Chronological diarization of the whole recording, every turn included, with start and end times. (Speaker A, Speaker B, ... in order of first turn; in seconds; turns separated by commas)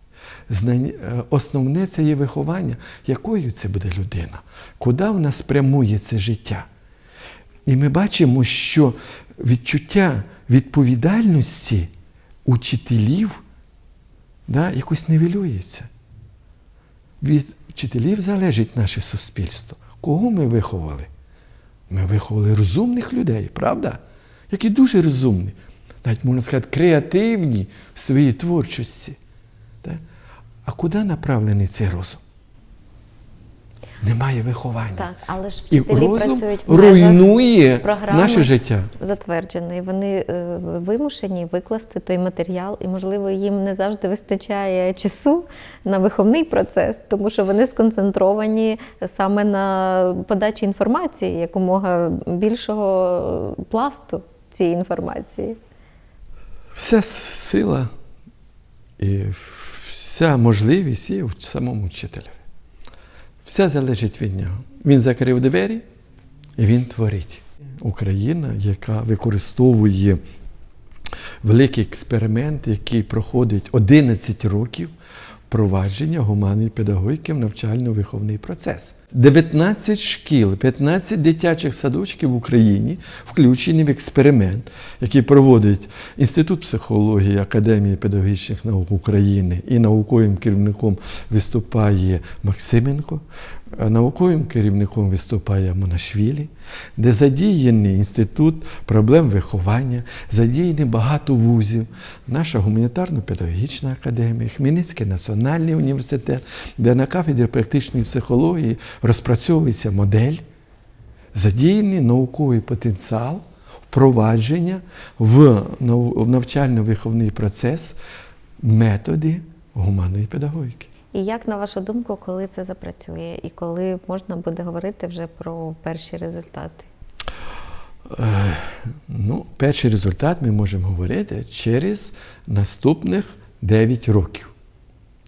Speaker A: 0.5-6.7, Speaker A: 7.7-11.9, Speaker A: 12.4-13.4, Speaker A: 14.5-15.9, Speaker A: 17.2-21.1, Speaker A: 21.9-29.2, Speaker A: 30.6-32.2, Speaker A: 34.0-35.1, Speaker B: 35.0-37.3, Speaker A: 35.7-38.9, Speaker B: 37.8-55.6, Speaker A: 56.8-57.9, Speaker A: 59.0-62.4, Speaker A: 63.5-65.8, Speaker A: 66.6-70.2, Speaker A: 71.4-74.9, Speaker A: 75.5-110.4, Speaker A: 111.3-118.0, Speaker A: 118.6-120.9, Speaker B: 121.1-126.9, Speaker A: 128.1-134.5